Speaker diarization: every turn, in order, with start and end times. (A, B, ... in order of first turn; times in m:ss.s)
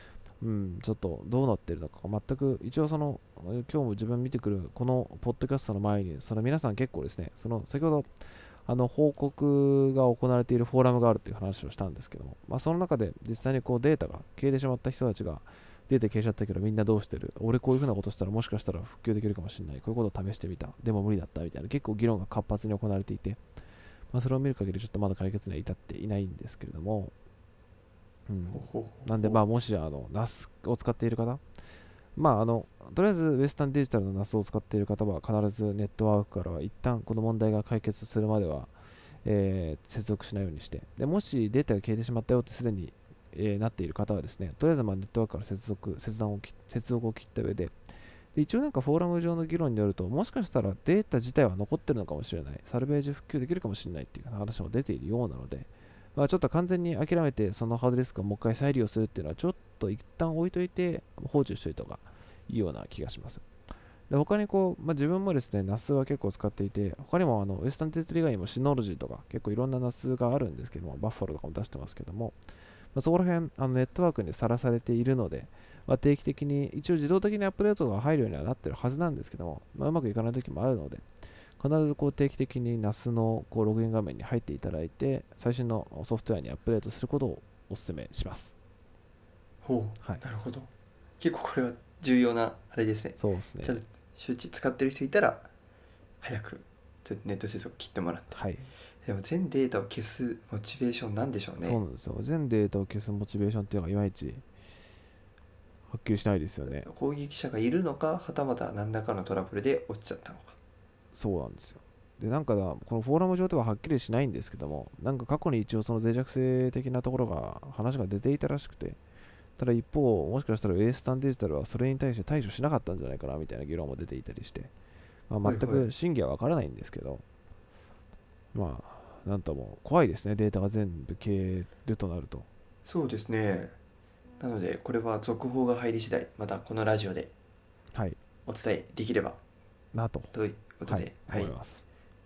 0:00.4-0:08.1 A
0:08.6-0:23.4 A
0:24.1-0:27.1 A
0:28.3-0:31.4 A
0:28.5-0:29.4 B
0:32.2-0:38.7 A
0:39.2-0:47.7 A
0:48.3-1:03.4 A
1:04.1-1:12.3 A
1:12.9-1:21.0 A
1:21.6-1:28.5 A
1:29.6-1:35.5 B
1:33.2-1:33.8 A
1:36.2-1:38.4 B
1:38.3-1:38.7 A
1:39.0-1:41.8 B
1:41.6-1:44.4 A
1:45.9-1:46.9 A
1:46.8-1:50.5 B
1:51.1-1:59.0 A
1:59.6-2:04.7 A
2:05.3-2:07.2 A
2:05.4-2:05.9 B
2:08.5-2:12.5 A
2:12.8-2:13.7 B
2:14.4-2:17.3 B
2:18.4-2:19.4 B
2:19.9-2:20.3 A
2:20.3-2:21.5 B
2:20.9-2:21.8 A